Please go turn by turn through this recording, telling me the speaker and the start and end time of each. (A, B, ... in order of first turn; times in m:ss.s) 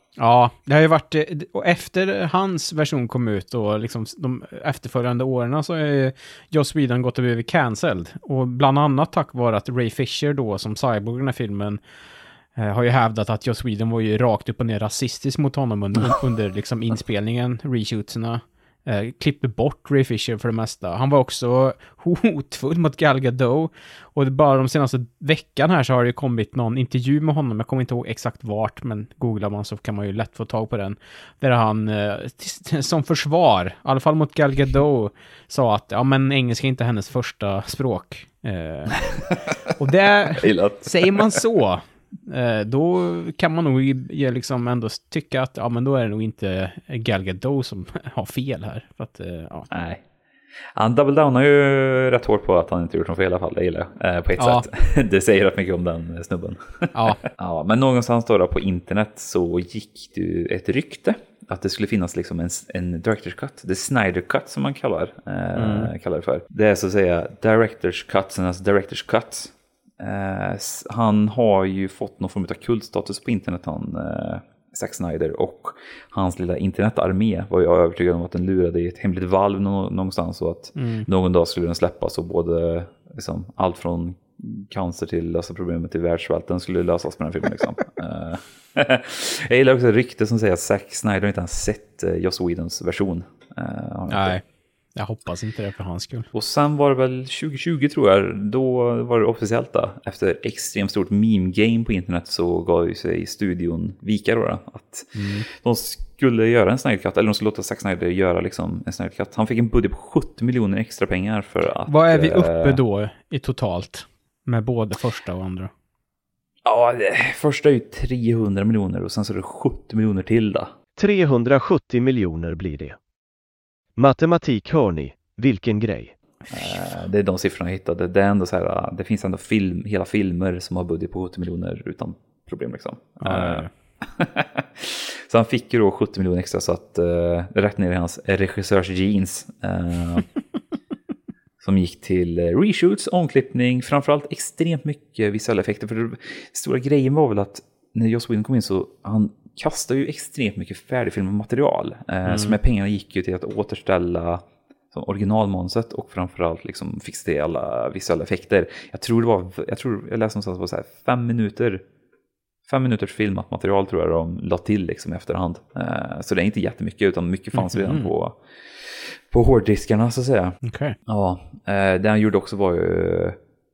0:00.2-0:11.8 A
0:12.6-0:49.7 A
0:40.4-0:41.4 B
0:49.7-0:50.0 B
0:50.8-1:34.4 B
0:54.4-0:54.7 A
0:56.9-0:57.2 A
1:05.6-1:05.9 A
1:20.8-1:21.1 A
1:34.1-1:34.4 A
1:35.0-1:36.3 A
1:36.3-1:52.8 B
1:45.2-1:45.5 A
1:51.9-1:55.7 A
1:56.6-2:00.7 B
2:01.0-2:03.0 C
2:04.0-2:06.2 C
2:06.5-2:20.3 B
2:13.2-2:13.7 A
2:21.6-2:41.8 B
2:32.3-2:32.6 A
2:42.6-2:53.4 B
2:47.5-2:48.1 A
2:50.6-2:51.0 A